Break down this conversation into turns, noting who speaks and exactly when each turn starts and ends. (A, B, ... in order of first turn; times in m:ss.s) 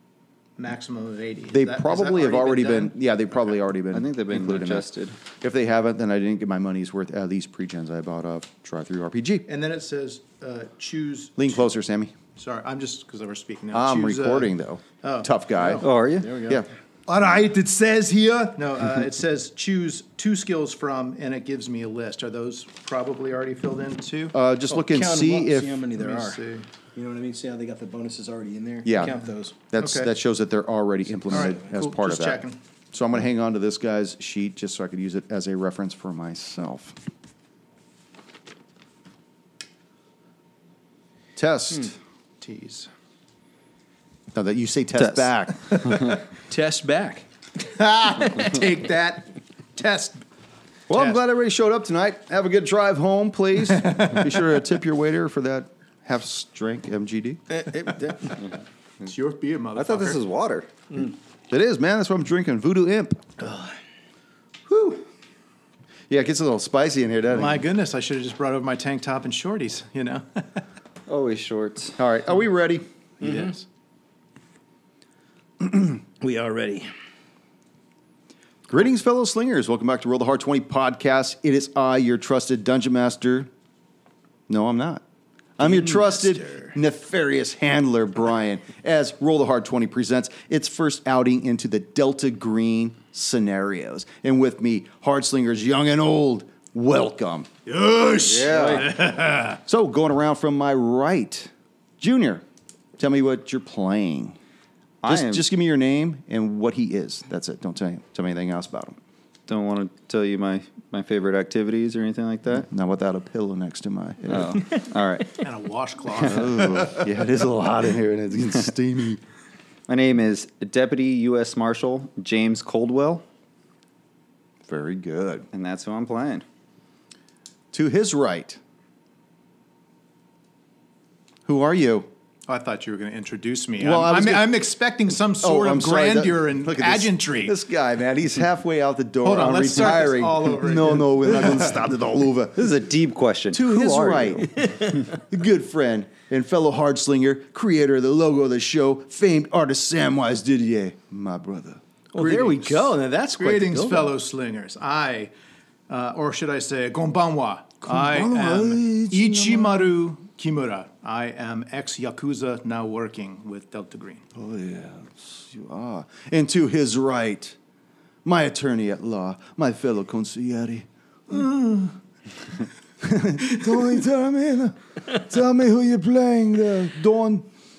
0:00.6-0:02.9 A
0:01.5-0:04.9 B
0:03.9-0:05.2 C
0:05.4-0:09.4 B
0:09.5-0:11.6 A
0:11.4-0:12.1 B
0:12.4-0:15.3 A
0:13.7-0:15.9 B
0:15.6-0:16.6 D
0:15.8-0:16.3 C
0:17.1-0:24.3 A
0:24.3-0:25.8 B
0:24.7-0:26.4 D
0:26.0-0:26.7 A
0:26.9-0:29.6 D
0:28.8-0:29.2 B
0:29.7-0:37.0 B
0:29.8-0:30.1 A
0:31.3-0:32.6 A
0:41.4-0:42.0 B
0:42.4-0:42.9 A
0:44.3-0:46.0 B
0:46.5-0:47.2 D
0:47.6-0:50.2 A
0:50.9-0:57.6 B
0:50.9-0:51.2 A
0:54.0-0:54.3 A
0:57.6-0:58.3 D
0:59.0-1:00.2 A
0:59.7-1:00.7 C
1:01.5-1:03.5 B
1:04.7-1:05.0 B
1:06.1-1:07.6 B
1:07.3-1:10.6 A
1:11.1-1:12.0 C
1:12.0-1:12.8 B
1:13.2-1:13.6 A
1:15.6-1:16.9 D
1:18.7-1:23.5 B
1:24.5-1:25.0 B
1:25.6-1:37.5 B
1:25.6-1:26.8 D
1:37.7-1:39.6 A
1:38.2-1:38.9 C
1:38.4-1:38.8 D
1:39.6-1:42.4 B
1:43.0-1:44.4 B
1:45.0-1:45.4 C
1:45.0-1:49.0 B
1:49.5-1:52.7 C
1:52.5-1:54.6 B
1:54.3-1:55.4 C
1:55.4-1:56.9 A
1:56.2-1:59.2 B
1:59.9-2:03.2 C
2:04.7-2:05.5 B
2:05.5-2:06.4 C
2:07.7-2:08.6 B
2:11.4-2:12.1 B
2:12.5-2:17.6 A
2:13.8-2:14.5 B
2:15.4-2:22.7 B
2:19.2-2:21.7 A
2:22.5-2:24.7 C
2:23.5-2:31.8 B
2:32.1-2:34.1 D
2:32.2-2:35.3 A
2:35.9-2:44.2 A
2:37.8-2:39.9 B
2:44.3-2:47.6 B
2:48.2-2:51.8 B
2:53.0-2:57.4 B